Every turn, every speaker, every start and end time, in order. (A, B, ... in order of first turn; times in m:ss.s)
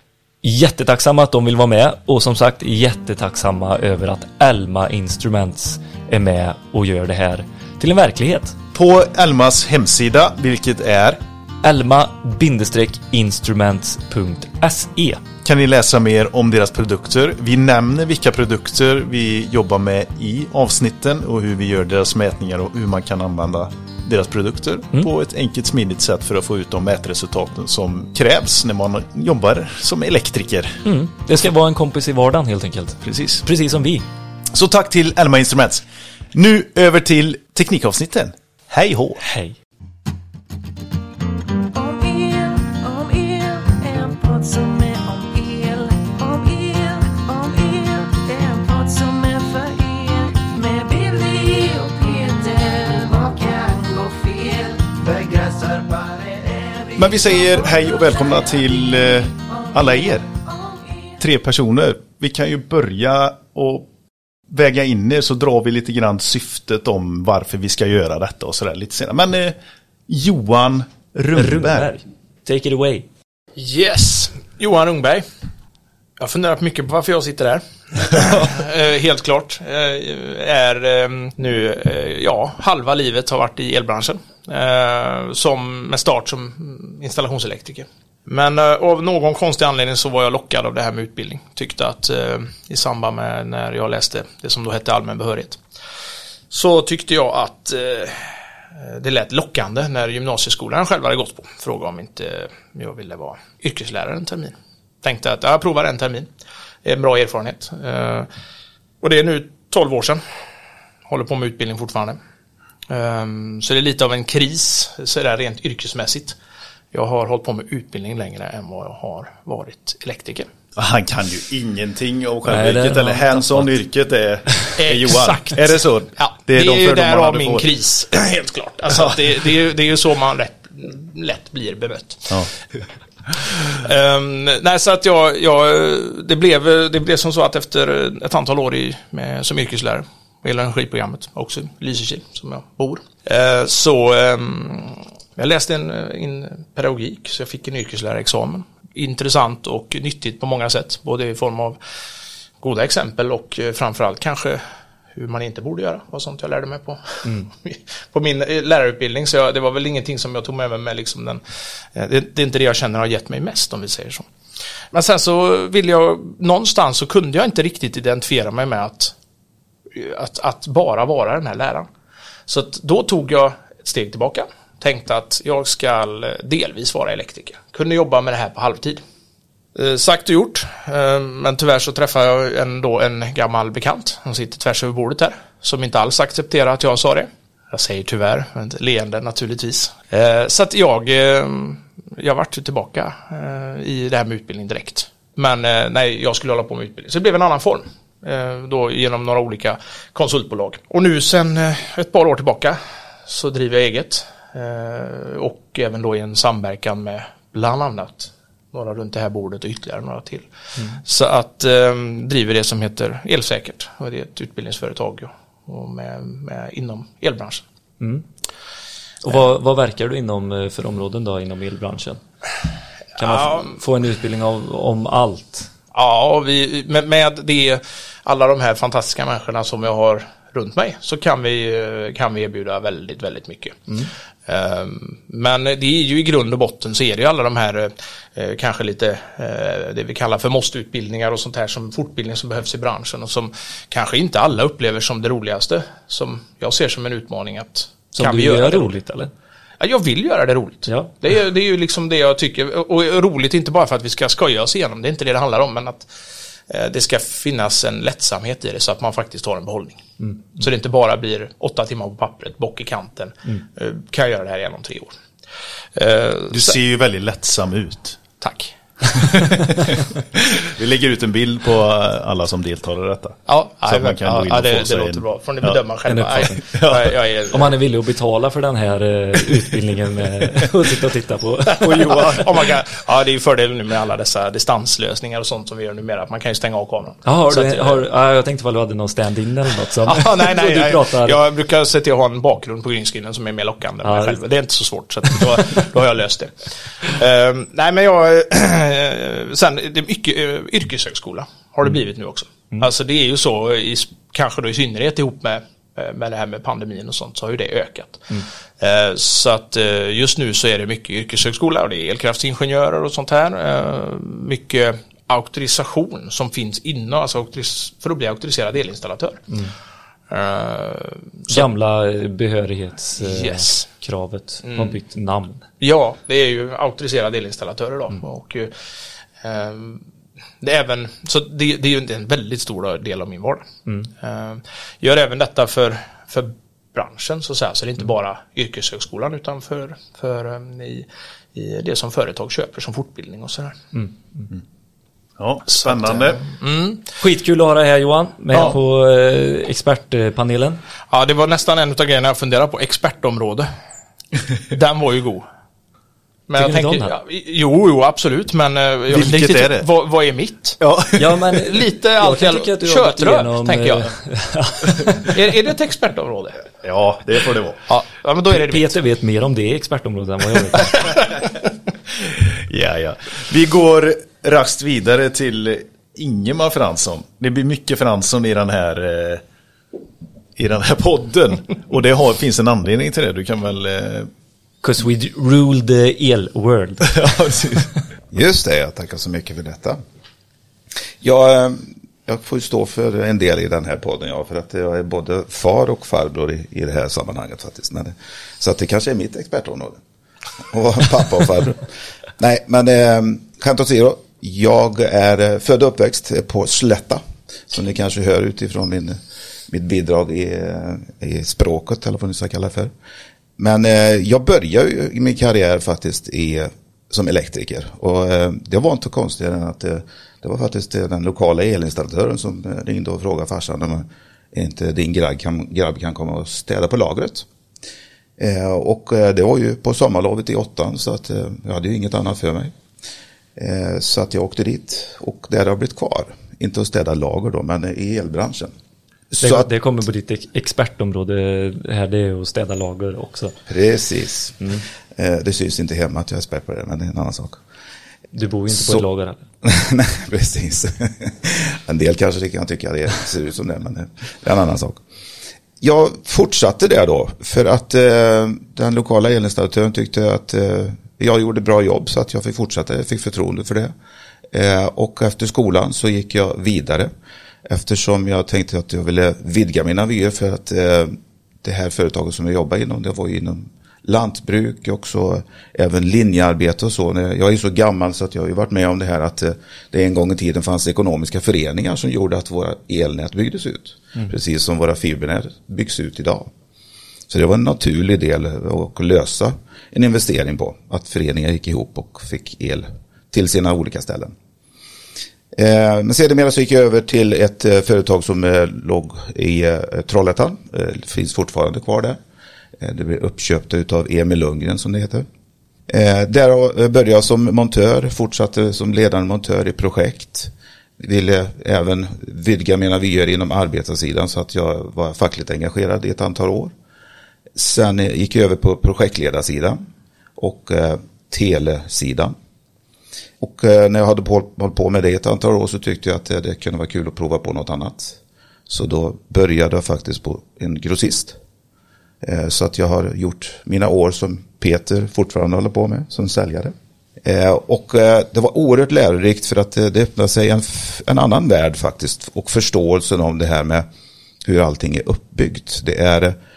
0:00.4-0:08.6 A
0:08.7-0:11.2 B
0:11.6-0:15.2 A
0:15.4-0:30.8 B
0:30.8-0:34.0 A
0:33.0-0:33.4 B
0:34.5-0:39.2 B
0:39.2-0:39.6 A
0:41.7-1:01.2 C
0:57.0-1:00.3 B
1:01.2-1:03.9 B
1:04.5-1:09.6 B
1:10.1-1:11.9 B
1:11.3-1:13.0 A
1:13.6-1:15.2 D
1:16.2-1:35.6 D
1:36.5-1:46.3 D
1:46.8-1:48.3 D
1:49.0-1:50.2 D
1:51.1-1:52.2 D
1:52.9-1:56.4 D
1:56.9-2:00.5 D
2:00.8-2:07.7 B
2:02.4-2:03.8 A
2:04.8-2:12.4 D
2:08.9-2:09.2 B
2:13.3-2:31.8 D
2:32.6-2:34.6 D
2:35.1-2:41.4 D
2:41.9-2:44.3 D
2:44.9-2:49.1 D
2:49.9-2:51.9 D
2:52.5-2:59.0 D
2:59.7-3:30.5 D
3:31.0-3:37.6 D
3:38.0-3:38.2 A
3:39.2-3:42.2 A
3:43.2-3:45.7 A
3:43.3-3:43.7 D
3:45.9-3:53.9 D
3:54.5-4:09.0 D
4:08.2-4:09.3 A
4:09.8-4:16.1 D
4:10.9-4:11.1 A
4:16.7-4:20.0 D
4:20.6-4:25.2 D
4:25.9-4:26.8 D
4:26.5-4:28.2 B
4:28.4-4:29.3 D
4:29.1-4:35.8 B
4:33.5-4:37.7 D
4:36.1-4:36.8 A
4:36.7-4:37.1 B
4:37.5-4:42.4 A
4:41.8-4:42.5 B
4:42.3-4:48.0 D
4:47.2-4:51.4 A
4:50.0-5:19.5 D
4:54.0-4:54.4 A
4:55.3-4:55.9 A
5:20.3-5:21.6 D
5:21.5-5:25.6 A
5:23.2-5:23.8 D
5:24.6-5:24.9 D
5:25.8-5:30.0 D
5:30.6-5:43.8 D
5:45.4-5:46.4 B
5:45.9-5:47.0 D
5:47.2-5:50.8 A
5:51.1-5:53.7 D
5:54.7-5:55.4 D
5:56.5-6:00.8 D
5:56.5-5:57.1 A
5:59.1-5:59.9 B
6:00.8-6:01.3 B
6:01.2-6:05.3 A
6:01.7-6:04.1 D
6:05.2-6:06.6 D
6:06.8-6:07.8 B
6:07.9-6:08.9 D
6:08.5-6:11.1 A
6:10.8-6:11.2 D
6:12.3-6:19.4 B
6:20.6-6:24.3 B
6:24.8-6:27.3 A
6:27.1-6:27.9 B
6:28.3-6:30.0 E
6:31.2-6:40.0 E
6:40.7-6:41.9 E
6:42.4-6:52.9 E
6:53.6-7:07.5 E
7:08.4-7:12.7 E
7:13.6-7:18.7 E
7:19.3-7:19.7 E
7:19.4-7:23.6 A
7:23.7-7:27.6 E
7:28.3-7:29.4 A
7:28.7-7:29.0 E
7:29.6-7:35.0 E
7:35.8-7:43.9 E
7:44.5-7:47.1 E
7:47.6-8:06.5 E
8:07.3-8:14.3 E
8:15.5-8:22.2 E
8:22.8-8:25.3 E
8:25.9-8:36.7 E
8:37.5-8:39.8 E
8:40.4-8:42.3 E
8:43.4-8:51.4 E
8:52.2-9:03.8 E
9:04.4-9:06.4 E